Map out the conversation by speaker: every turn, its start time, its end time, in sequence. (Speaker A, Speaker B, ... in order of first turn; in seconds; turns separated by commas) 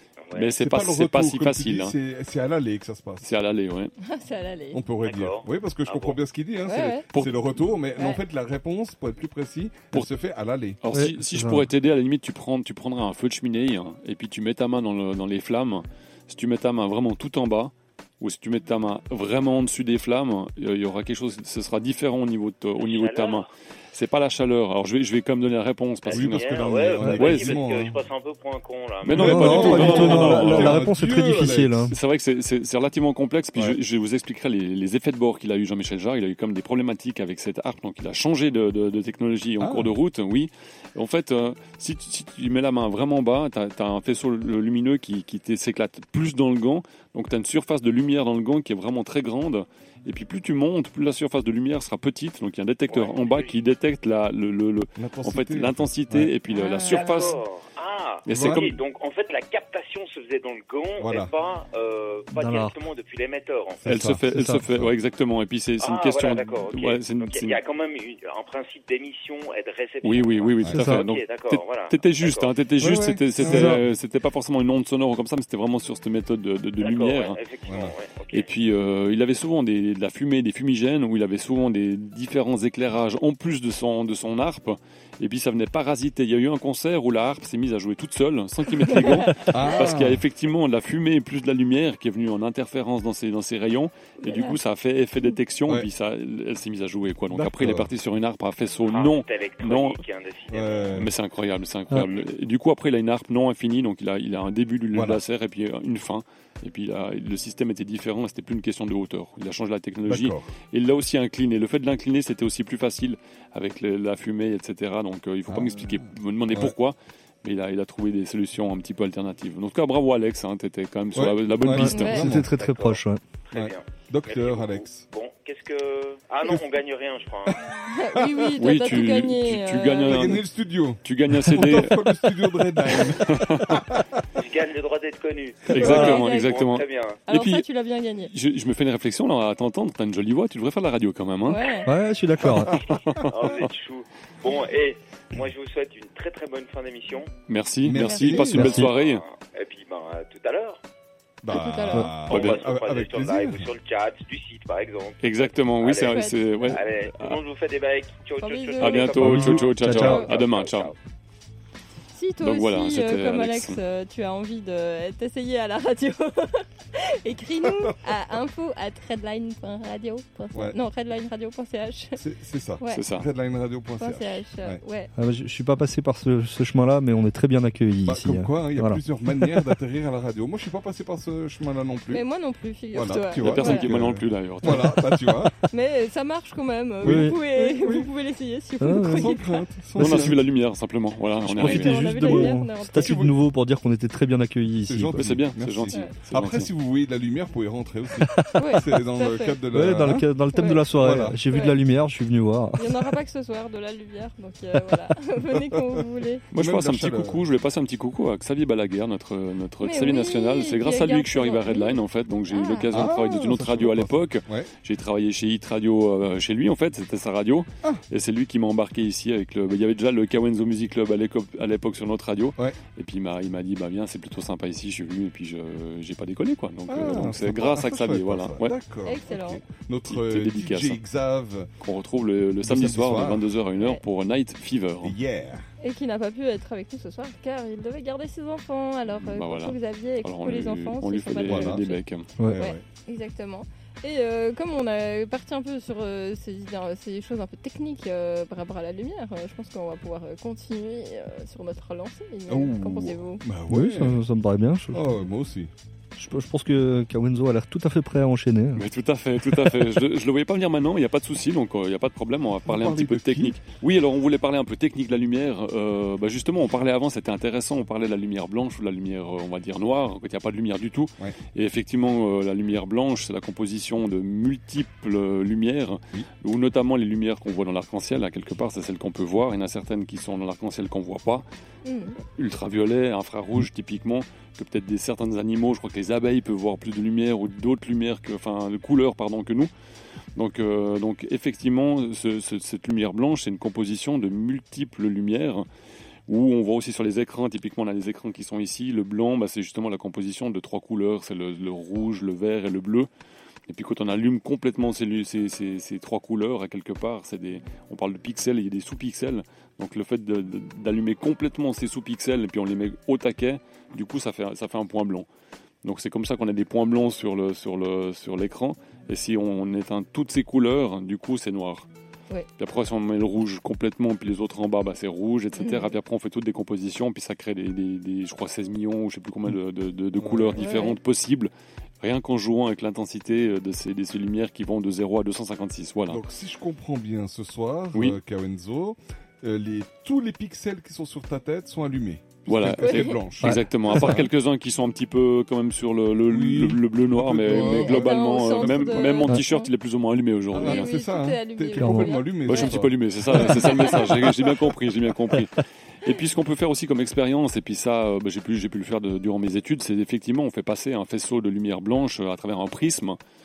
Speaker A: 0.3-1.9, Speaker B: 0.6-3.3, Speaker A: 3.2-3.9, Speaker C: 4.0-4.8, Speaker B: 4.7-10.8, Speaker D: 5.0-6.2, Speaker C: 6.7-7.0, Speaker A: 7.1-7.4, Speaker A: 10.8-27.6, Speaker E: 10.9-11.7, Speaker D: 22.8-23.5, Speaker D: 26.0-30.4, Speaker B: 26.1-28.0, Speaker A: 29.0-30.8, Speaker B: 29.1-31.9, Speaker E: 29.2-31.9, Speaker A: 31.9-57.4, Speaker B: 39.6-39.9, Speaker D: 52.9-53.5, Speaker B: 55.0-56.3, Speaker D: 56.8-63.9, Speaker A: 58.3-58.8, Speaker B: 58.3-58.6, Speaker B: 61.0-61.3, Speaker E: 62.3-62.8, Speaker B: 63.8-64.9, Speaker A: 63.9-67.6, Speaker E: 64.3-64.7, Speaker D: 65.8-72.5, Speaker A: 70.0-77.4, Speaker E: 70.7-71.0, Speaker B: 72.8-73.8, Speaker E: 73.4-73.8, Speaker D: 76.8-78.5, Speaker B: 77.7-77.9, Speaker A: 78.3-100.0, Speaker C: 88.9-89.4, Speaker B: 89.5-90.2, Speaker C: 94.2-94.6, Speaker B: 97.3-97.9, Speaker D: 98.9-101.0, Speaker B: 100.5-101.1, Speaker A: 101.0-122.3, Speaker D: 102.0-102.2, Speaker B: 104.9-105.2, Speaker B: 110.1-110.5, Speaker B: 115.5-116.7, Speaker B: 121.2-122.5, Speaker E: 121.7-123.2, Speaker C: 121.9-122.2, Speaker D: 122.5-127.6, Speaker B: 123.5-125.1, Speaker C: 127.9-130.4, Speaker A: 128.6-130.4, Speaker B: 130.1-134.1, Speaker A: 131.0-133.9, Speaker D: 134.4-137.2, Speaker A: 135.7-137.7, Speaker C: 135.8-136.6, Speaker C: 137.3-138.3, Speaker A: 138.2-141.7, Speaker C: 141.5-141.9, Speaker E: 141.9-142.8, Speaker B: 142.4-143.2, Speaker A: 143.1-143.7, Speaker D: 143.3-147.3, Speaker A: 147.5-149.2, Speaker B: 147.8-148.9, Speaker C: 148.0-148.4, Speaker E: 148.5-148.9, Speaker D: 148.9-150.8, Speaker B: 151.4-153.7, Speaker C: 151.5-152.2, Speaker D: 152.2-161.0, Speaker A: 152.3-152.7, Speaker A: 155.2-157.4, Speaker C: 156.1-156.4, Speaker C: 158.4-159.3, Speaker A: 158.8-160.9, Speaker E: 159.2-160.3, Speaker C: 162.1-172.2, Speaker A: 162.4-163.8, Speaker B: 172.2-174.8, Speaker A: 172.9-173.3, Speaker C: 174.0-175.1, Speaker E: 175.2-179.8, Speaker B: 178.1-182.2, Speaker C: 182.1-183.9, Speaker B: 182.9-185.6, Speaker A: 183.4-185.0, Speaker E: 184.6-185.5, Speaker C: 185.7-189.6, Speaker B: 187.0-188.1, Speaker E: 187.0-187.4, Speaker E: 188.8-190.3, Speaker B: 189.0-190.4, Speaker A: 190.0-192.2, Speaker E: 191.4-195.4, Speaker C: 191.6-193.2, Speaker B: 192.2-193.4, Speaker B: 194.8-200.3, Speaker A: 195.2-196.7, Speaker E: 198.2-198.8, Speaker C: 198.6-199.6, Speaker E: 199.7-203.1, Speaker C: 200.5-200.8, Speaker B: 201.0-201.4, Speaker C: 201.5-201.8, Speaker C: 202.8-206.4, Speaker A: 206.5-228.8, Speaker B: 206.6-207.4, Speaker C: 209.8-212.9, Speaker B: 212.9-214.7, Speaker B: 226.9-231.7, Speaker C: 229.1-229.6, Speaker A: 230.1-231.0, Speaker A: 231.8-235.2, Speaker B: 232.6-233.4, Speaker B: 235.0-235.7, Speaker C: 235.8-242.0, Speaker A: 239.2-242.3, Speaker B: 241.5-241.8, Speaker B: 242.4-242.8, Speaker C: 242.6-253.4, Speaker B: 252.5-254.2, Speaker E: 253.7-255.2, Speaker B: 254.9-255.7, Speaker E: 256.2-258.8, Speaker A: 258.8-281.4, Speaker B: 262.7-263.6, Speaker C: 281.9-282.2, Speaker A: 282.3-289.7, Speaker A: 290.4-295.6, Speaker A: 296.3-303.1, Speaker A: 303.7-315.3, Speaker A: 315.8-321.9, Speaker A: 322.6-336.2, Speaker C: 325.6-326.0, Speaker B: 330.2-330.7, Speaker C: 330.6-331.0, Speaker B: 336.1-344.3, Speaker A: 342.5-350.9, Speaker C: 342.8-343.2, Speaker B: 346.3-349.3, Speaker C: 347.5-349.7, Speaker B: 350.5-354.3, Speaker C: 350.6-352.8, Speaker E: 351.8-352.2, Speaker A: 352.5-363.2, Speaker C: 353.4-354.1